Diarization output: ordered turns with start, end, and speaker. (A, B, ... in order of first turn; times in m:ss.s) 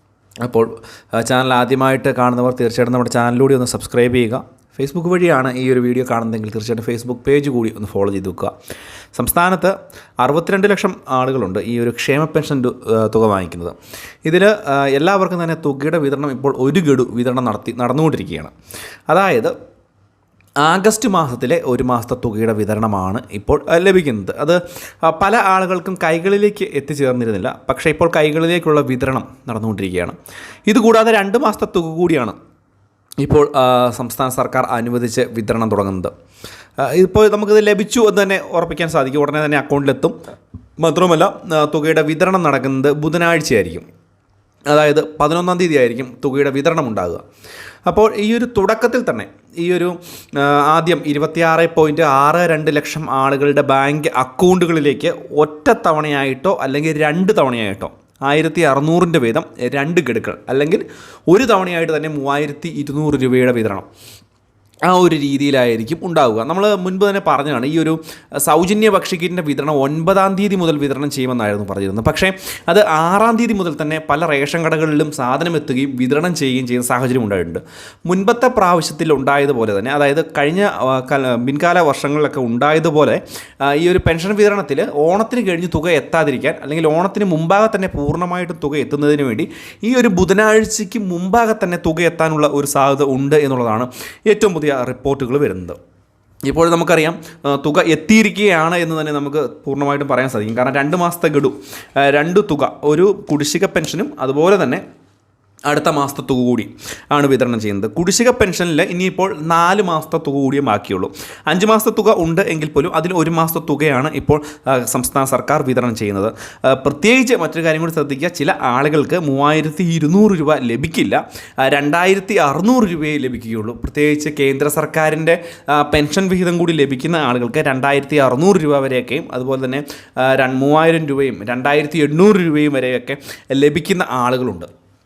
0:00.4-0:08.5 A
0:09.2-0:18.5 A
0:19.1-0:19.5 A
0:20.6-0:30.2 A
0:30.7-0:32.4 A
0:33.2-0:36.1 A
0:36.8-0:40.2 A
0:40.8-0:43.8 A
0:44.7-0:47.2 A
0:47.8-1:03.9 A
1:04.8-1:35.8 A
1:36.5-1:44.8 A
1:45.7-2:14.7 A